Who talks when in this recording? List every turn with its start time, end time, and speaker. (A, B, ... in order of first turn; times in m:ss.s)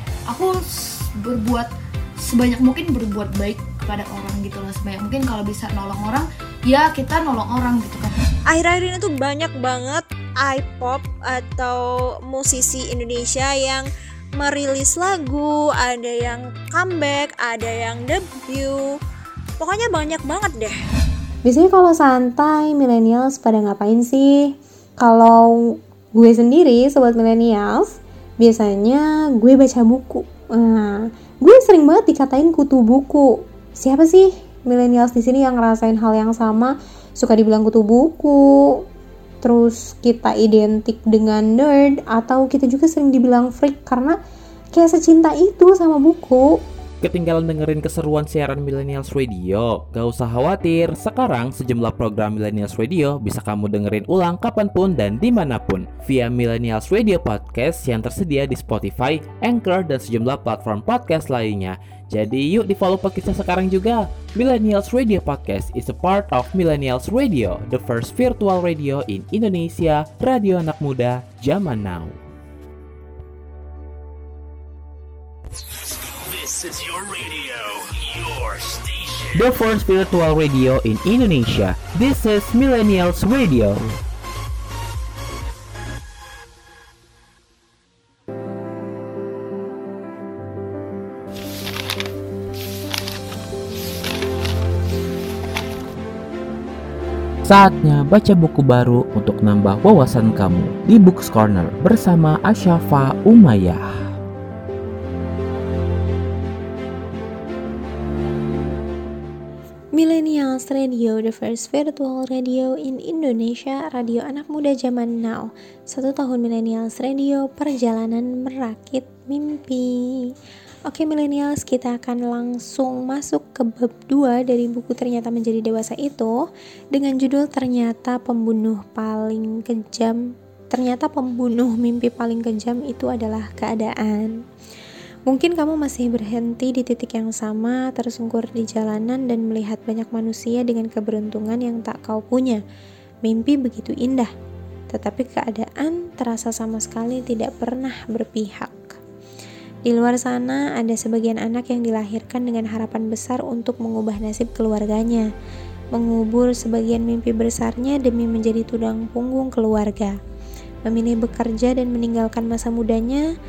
0:00.3-0:08.2 A
0:08.5-0:19.0 B
0:19.6-0:20.8 B
0:21.4-0:38.8 C
0:39.4-0:44.2 C
0:44.7-0:46.5 C
0:47.0-1:12.2 D
1:15.6-1:19.5 E
1:19.4-1:23.9 D
1:37.4-1:43.9 D
1:50.0-2:00.3 C
2:00.9-2:06.4 C
2:06.9-2:10.2 C
2:10.7-2:14.4 C
2:15.3-2:22.6 C
2:23.2-2:24.3 C
2:24.9-2:29.0 C
2:29.9-2:35.3 C
2:35.9-2:40.2 C
2:40.9-2:43.2 C